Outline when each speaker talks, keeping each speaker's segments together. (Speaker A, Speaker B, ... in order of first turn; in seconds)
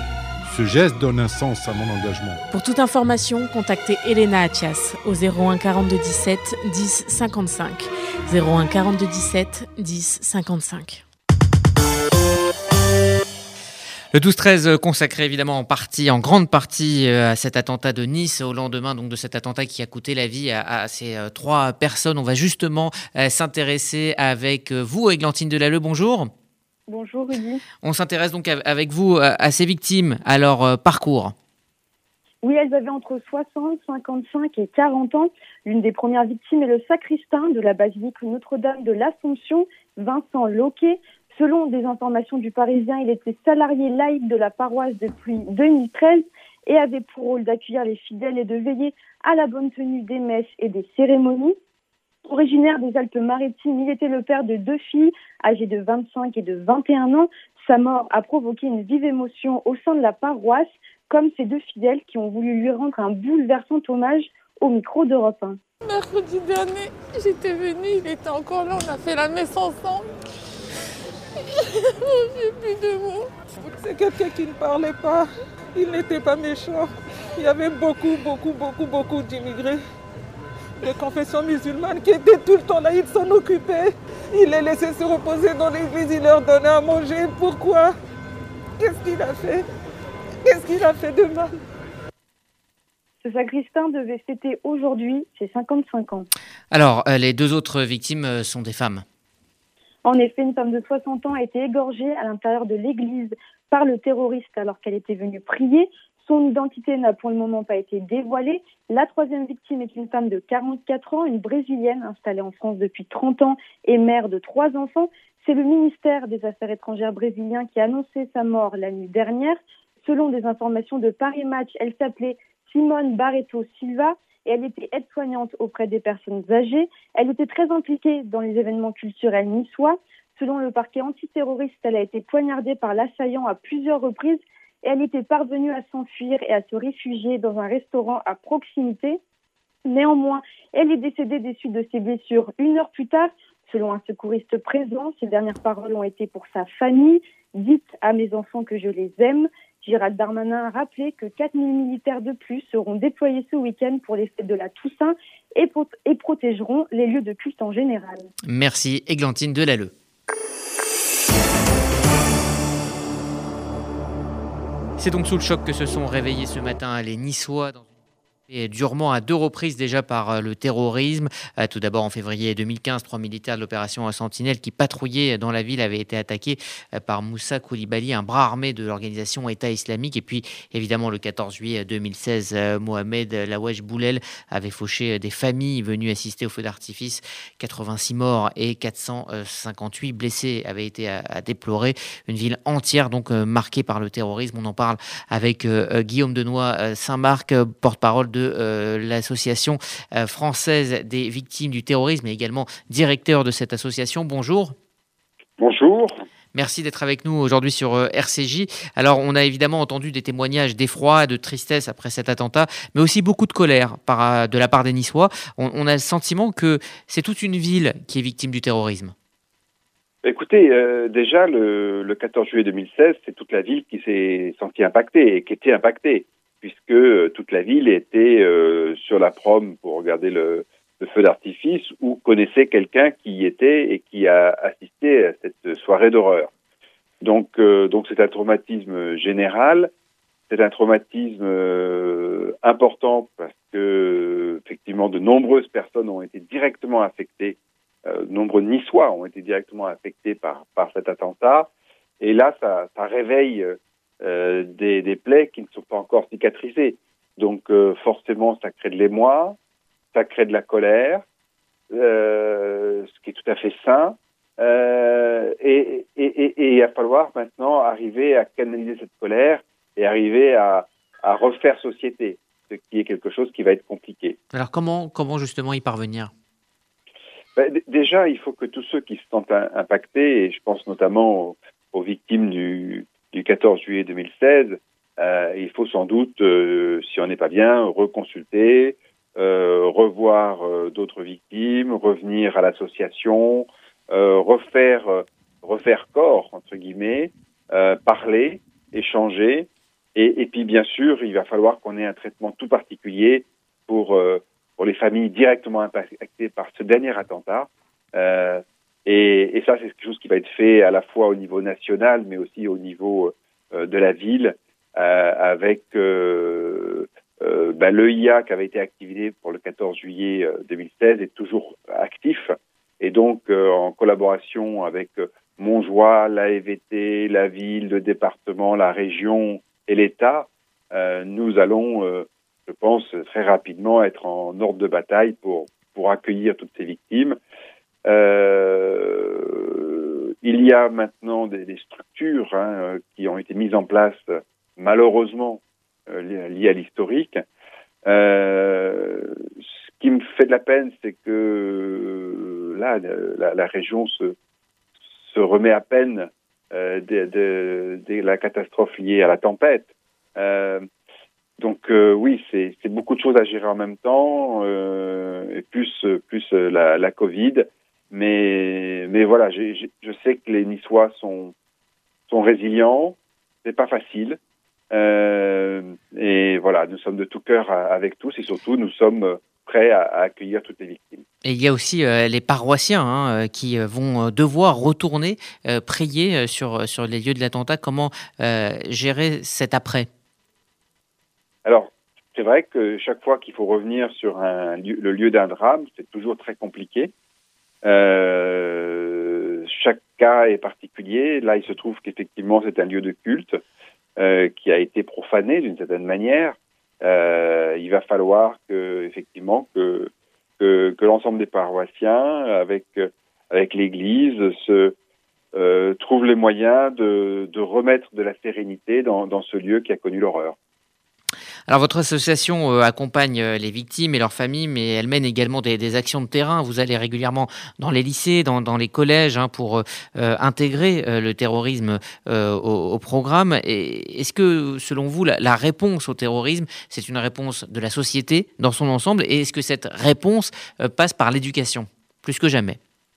Speaker A: 0.4-2.4
Speaker B: 2.5-11.0
Speaker C: 14.1-26.3, 27.8-31.3, 96.7-99.0, 158.5-159.9, 165.0-167.9, 168.5-204.8, 206.5-219.1, 274.5-276.3, 381.4-390.1, 421.7-442.8
Speaker D: 26.9-27.6, 32.4-51.6, 52.2-65.6, 93.2-96.3, 100.0-139.2, 139.8-158.3
Speaker E: 65.8-70.1, 71.8-79.8, 80.8-88.0, 88.8-89.7, 90.4-91.5
Speaker F: 205.6-206.2, 220.2-236.5, 237.2-239.9, 240.5-251.7, 252.2-259.6, 260.1-261.2, 261.9-274.4, 277.6-337.4, 338.1-347.4, 348.1-354.4, 355.3-360.9, 361.6-371.5, 372.3-374.4, 374.9-381.2, 391.6-397.1, 397.8-403.6, 404.2-414.9, 415.5-420.6